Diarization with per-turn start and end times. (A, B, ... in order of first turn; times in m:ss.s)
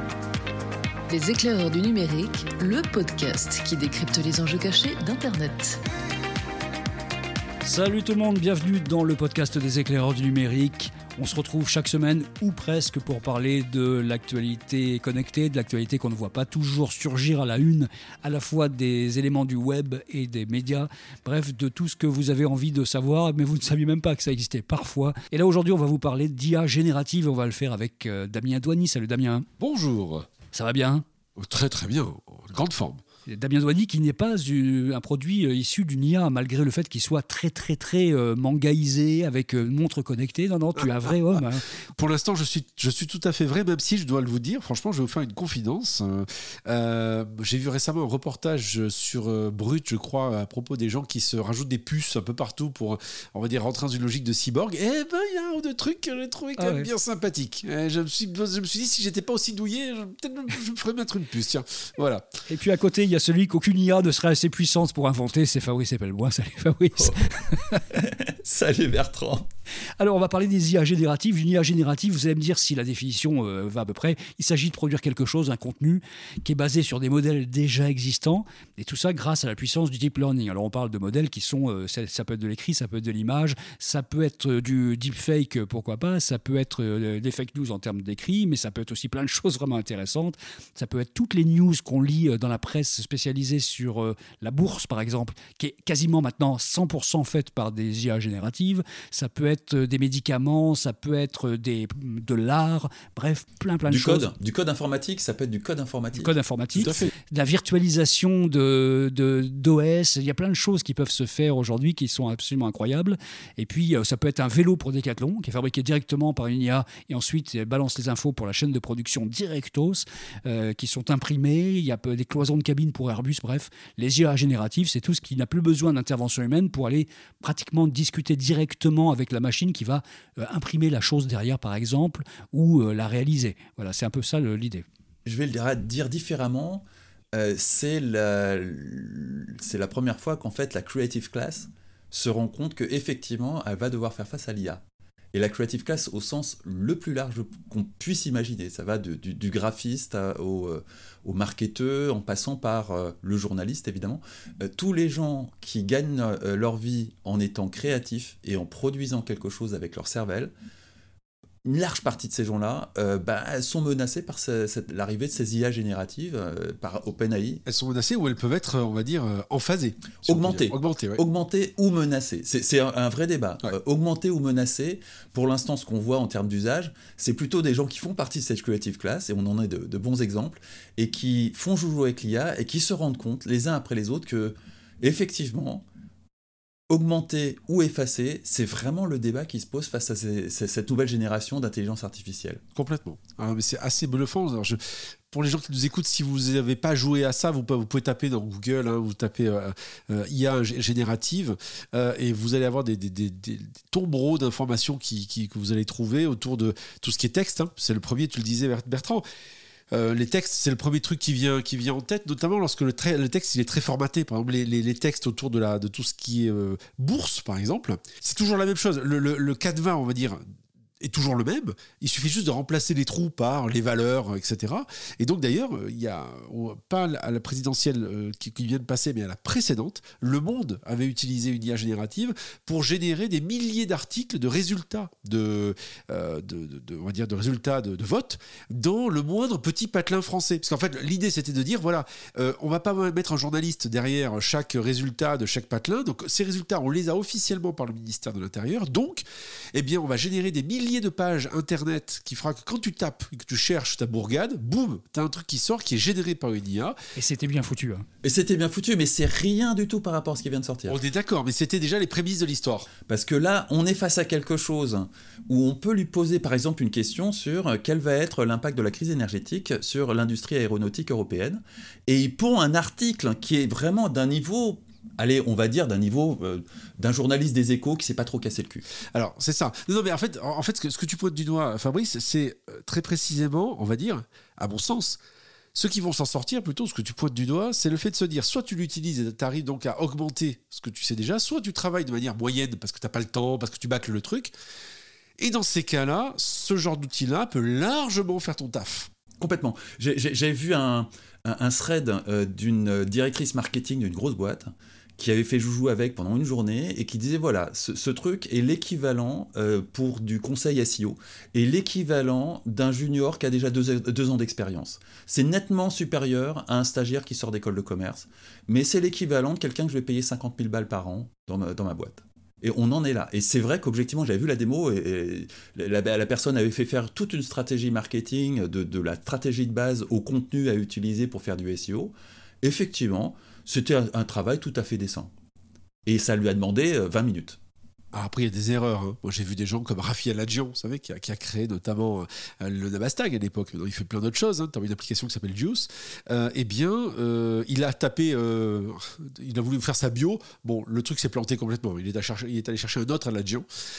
0:01.1-0:05.8 A
0:07.6-0:29.5 B
0:29.6-0:30.3 C
0:30.5-0:31.0 B
0:31.4-0:33.0 C
0:33.3-0:41.8 B
0:40.8-0:41.4 C
0:41.9-1:02.3 C
0:56.6-0:56.9 B
1:02.5-1:07.8 B
1:07.9-1:09.5 D
1:10.0-1:44.3 B
1:43.9-1:46.3 D
1:46.1-2:14.8 B
1:46.7-1:47.1 C
2:15.2-2:40.5 D
2:41.6-2:47.6 D
2:47.6-2:51.2 C
2:50.2-3:05.8 D
3:06.9-3:12.6 D
3:12.7-3:14.8 C
3:15.3-3:29.2 C
3:29.9-3:40.4 C
3:41.0-4:17.0 C
4:17.2-4:18.0 B
4:18.2-4:21.0 D
4:20.9-4:22.9 C
4:23.1-4:38.8 D
4:39.1-4:45.2 C
4:45.7-4:54.5 C
4:55.4-4:59.1 C
4:59.4-5:35.3 D
5:36.0-5:37.6 D
5:38.1-5:53.6 C